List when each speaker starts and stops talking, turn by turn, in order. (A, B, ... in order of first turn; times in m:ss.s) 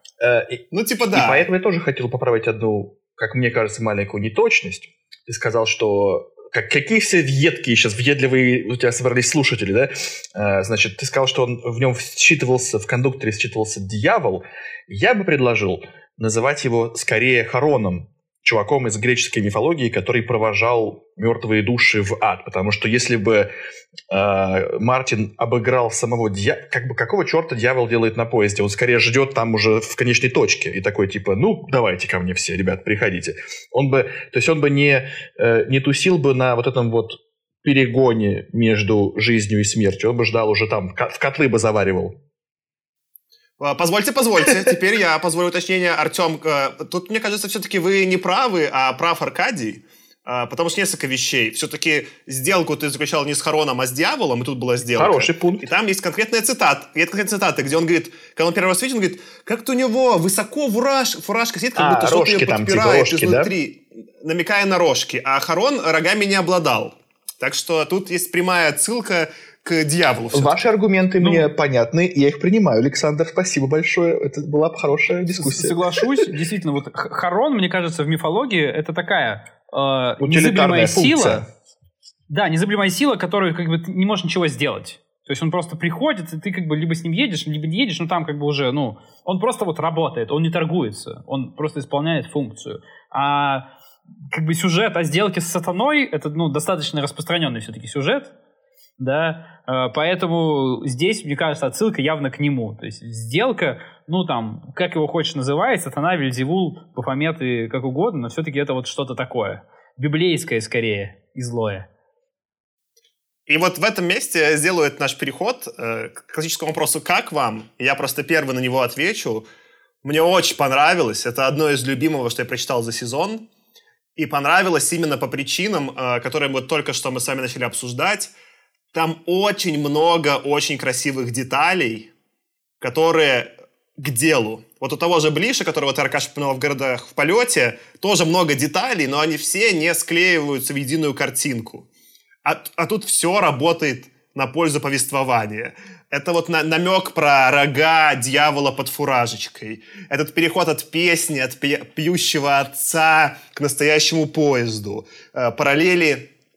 0:00.2-0:23.5 A
0:00.7-0:01.5 B
0:24.1-0:42.2 A
0:43.6-1:10.6 B
0:54.9-0:55.7 A
1:01.7-1:03.5 A
1:10.3-1:16.3 A
1:11.2-1:11.5 C
1:15.3-1:21.4 C
1:20.2-1:21.5 A
1:22.3-1:33.7 C
1:34.3-1:38.3 C
1:39.0-1:51.9 C
1:53.5-1:59.4 B
2:00.0-2:03.4 B
2:04.2-2:08.3 B
2:08.9-2:12.1 B
2:12.8-2:21.9 B
2:22.4-2:36.3 B